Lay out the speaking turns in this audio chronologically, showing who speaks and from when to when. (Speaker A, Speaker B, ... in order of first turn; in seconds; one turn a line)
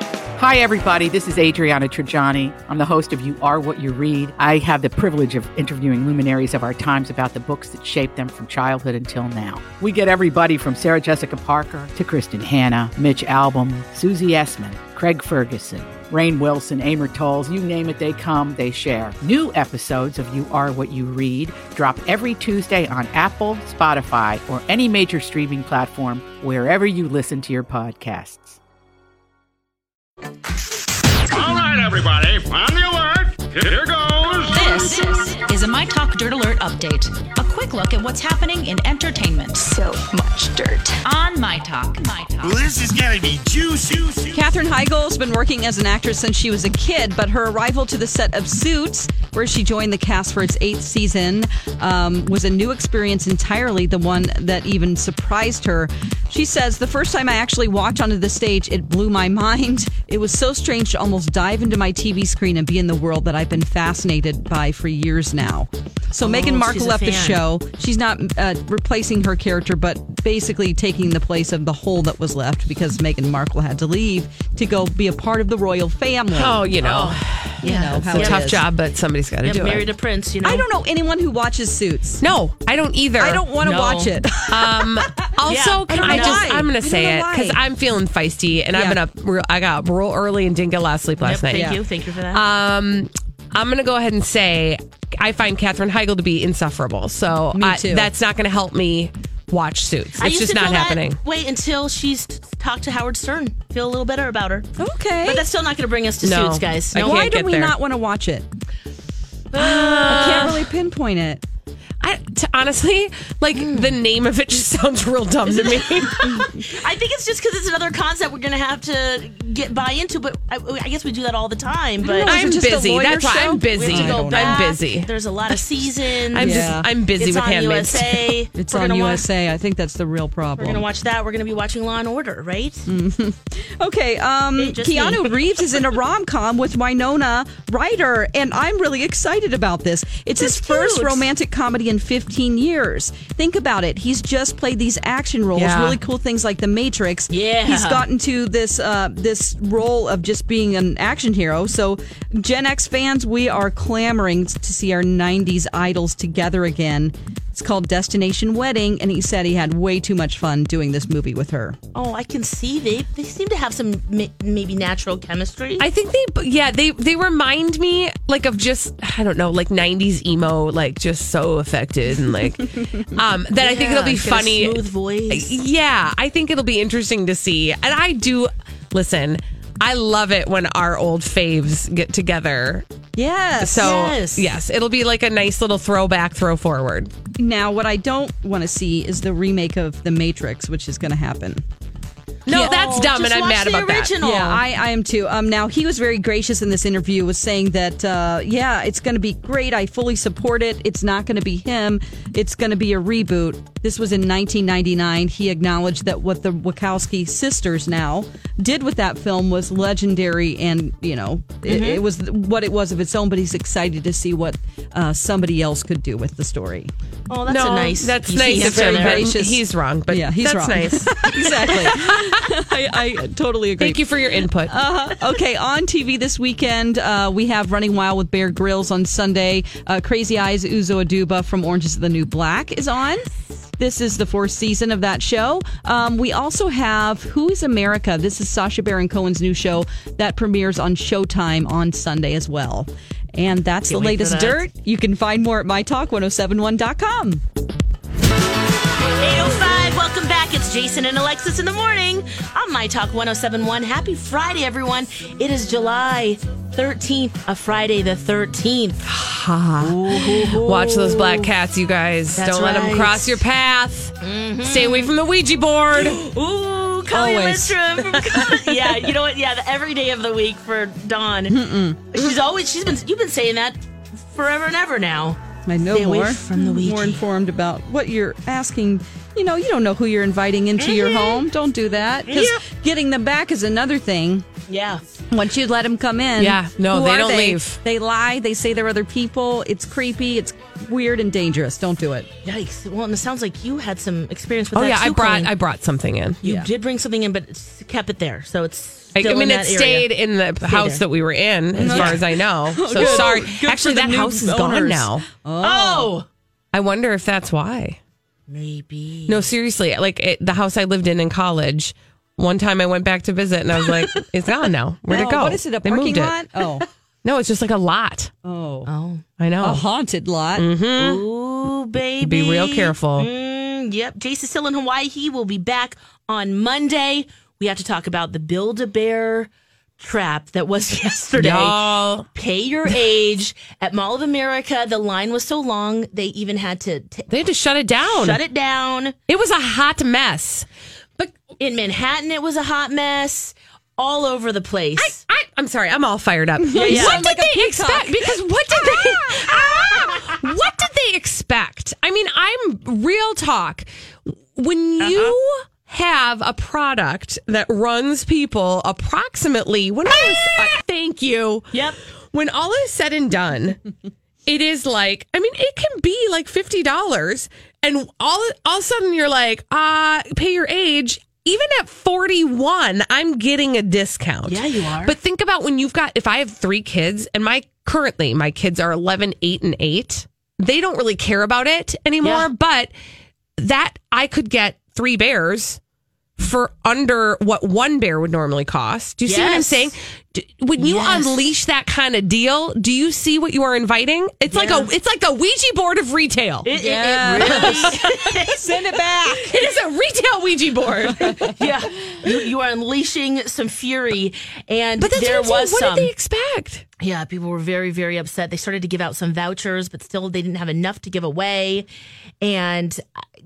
Speaker A: 0.4-28.6
Speaker B: 31.3-34.9
Speaker C: 34.5-42.7
Speaker B: 42.4-44.5
Speaker D: 44.3-76.7
Speaker E: 66.2-67.4
Speaker F: 76.3-77.6
Speaker E: 76.8-78.5
Speaker D: 77.6-78.6
Speaker F: 78.1-79.9
Speaker E: 79.4-80.7
Speaker D: 80.4-82.2
Speaker F: 82.2-83.5
Speaker D: 83.2-85.1
Speaker E: 83.6-84.2
Speaker F: 84.5-91.8
Speaker E: 85.3-86.5
Speaker D: 85.9-87.6
Speaker D: 88.7-89.0
Speaker E: 91.2-92.4
Speaker D: 91.5-91.8
Speaker F: 92.3-101.2
Speaker D: 97.5-98.1
Speaker E: 100.2-107.2
Speaker D: 104.8-105.5
Speaker F: 106.2-107.8
Speaker D: 107.0-108.5
Speaker E: 109.5-110.6
Speaker F: 109.5-110.6
Speaker D: 109.6-111.4
Speaker F: 112.0-116.5
Speaker E: 113.5-114.0
Speaker E: 115.5-122.4
Speaker D: 116.2-116.6
Speaker D: 122.0-124.7
Speaker F: 122.2-125.1
Speaker E: 123.7-129.3
Speaker F: 126.3-128.3
Speaker D: 126.4-126.9
Speaker D: 128.6-130.8
Speaker E: 130.6-132.8
Speaker D: 132.9-161.8
Speaker E: 134.6-135.6
Speaker E: 140.4-141.3
Speaker F: 145.6-146.0
Speaker E: 147.3-148.1
Speaker E: 161.9-165.9
Speaker F: 165.8-182.9
Speaker E: 173.6-175.6
Speaker D: 183.2-183.9
Speaker F: 183.6-187.1
Speaker E: 183.8-184.5
Speaker D: 187.4-191.6
Speaker F: 192.5-194.2
Speaker E: 192.5-194.6
Speaker D: 192.5-192.9
Speaker D: 194.2-216.9
Speaker E: 211.7-212.0
Speaker E: 217.3-219.3
Speaker F: 217.5-222.4
Speaker D: 218.5-224.1
Speaker F: 223.8-224.7
Speaker D: 224.7-247.4
Speaker E: 243.9-244.6
Speaker E: 249.2-259.0
Speaker F: 259.1-266.2
Speaker E: 259.8-261.5
Speaker E: 262.4-263.4
Speaker E: 264.2-265.1
Speaker E: 266.0-271.6
Speaker D: 267.1-268.5
Speaker D: 271.5-272.1
Speaker E: 272.1-277.2
Speaker D: 275.7-284.5
Speaker E: 280.8-281.4
Speaker E: 282.3-282.6
Speaker E: 284.7-285.0
Speaker D: 285.3-292.3
Speaker F: 286.4-287.8
Speaker E: 292.4-295.5
Speaker F: 294.7-296.4
Speaker D: 296.4-296.7
Speaker E: 296.4-300.1
Speaker F: 299.1-305.3
Speaker E: 300.6-301.0
Speaker E: 301.7-302.3
Speaker D: 301.8-306.1
Speaker E: 302.9-303.3
Speaker E: 305.6-306.3
Speaker F: 306.7-308.0
Speaker E: 308.5-309.5
Speaker F: 309.3-316.4
Speaker E: 313.8-314.2
Speaker D: 315.1-316.9
Speaker F: 317.2-318.3
Speaker D: 318.4-318.9
Speaker E: 318.9-319.2
Speaker F: 319.4-319.8
Speaker D: 319.6-320.7
Speaker F: 320.6-321.2
Speaker E: 321.0-337.3
Speaker F: 322.2-323.3
Speaker F: 331.4-332.3
Speaker F: 337.3-338.4
Speaker E: 338.0-339.1
Speaker F: 339.3-340.7
Speaker E: 341.6-345.2
Speaker F: 345.0-363.8
Speaker D: 346.6-350.2
Speaker E: 346.8-347.3
Speaker E: 355.0-355.4
Speaker E: 361.7-362.0
Speaker F: 364.5-382.9
Speaker E: 374.5-375.1
Speaker E: 382.2-382.5
Speaker F: 383.6-385.8
Speaker F: 386.4-396.7
Speaker E: 389.3-389.9
Speaker E: 390.8-391.5
Speaker E: 394.5-394.9
Speaker E: 396.6-399.0
Speaker D: 396.8-399.6
Speaker F: 397.4-398.0
Speaker F: 399.5-401.5
Speaker D: 401.1-401.5
Speaker E: 401.2-406.1
Speaker F: 405.0-406.8
Speaker E: 407.0-411.9
Speaker E: 412.4-413.0